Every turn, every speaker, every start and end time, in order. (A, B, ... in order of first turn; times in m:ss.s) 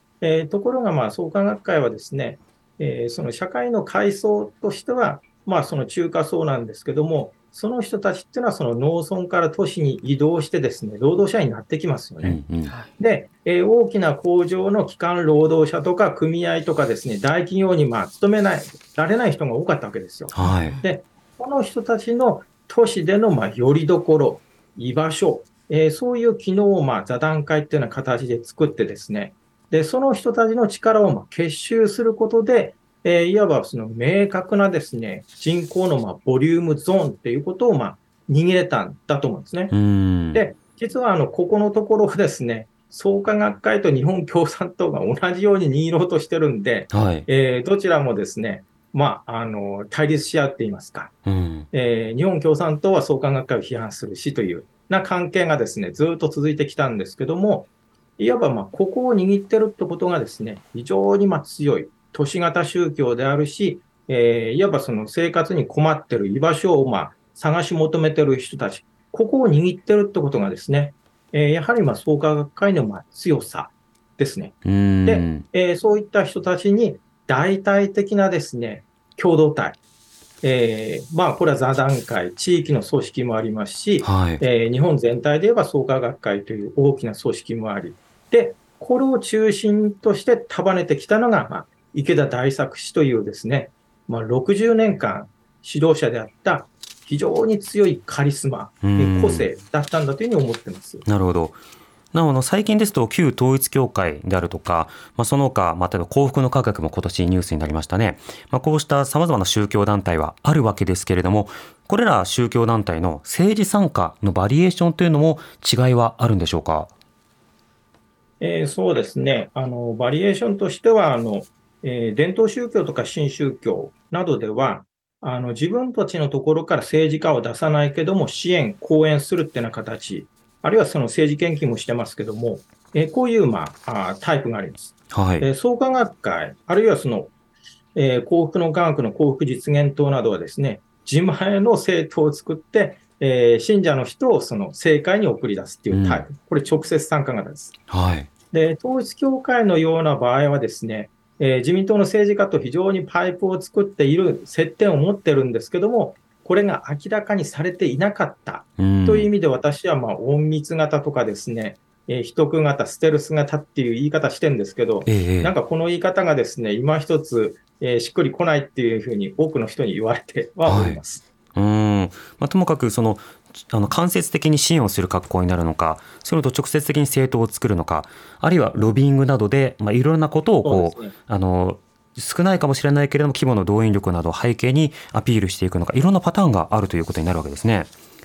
0:00.2-0:12.4 A
0:12.2-0:12.8 B
0:13.0-0:39.7 A
0:20.3-0:20.8 B
0:39.7-0:40.4 B
0:40.3-0:51.1 A
0:46.9-0:47.3 B
0:51.2-0:51.7 B
0:51.7-1:19.8 A
1:14.6-1:15.4 B
1:20.4-1:41.0 A
1:24.0-1:24.4 B
1:38.8-1:39.5 B
1:41.0-1:41.6 B
1:42.1-1:56.9 B
1:58.4-2:17.3 A
2:15.1-2:15.5 B
2:17.9-2:27.8 A
2:25.9-2:26.2 B
2:27.9-2:28.3 B
2:28.5-2:51.2 A
2:38.8-2:39.3 B
2:45.0-2:45.5 B
2:50.6-2:51.0 B
2:51.5-3:07.9 B
3:00.6-3:01.1 A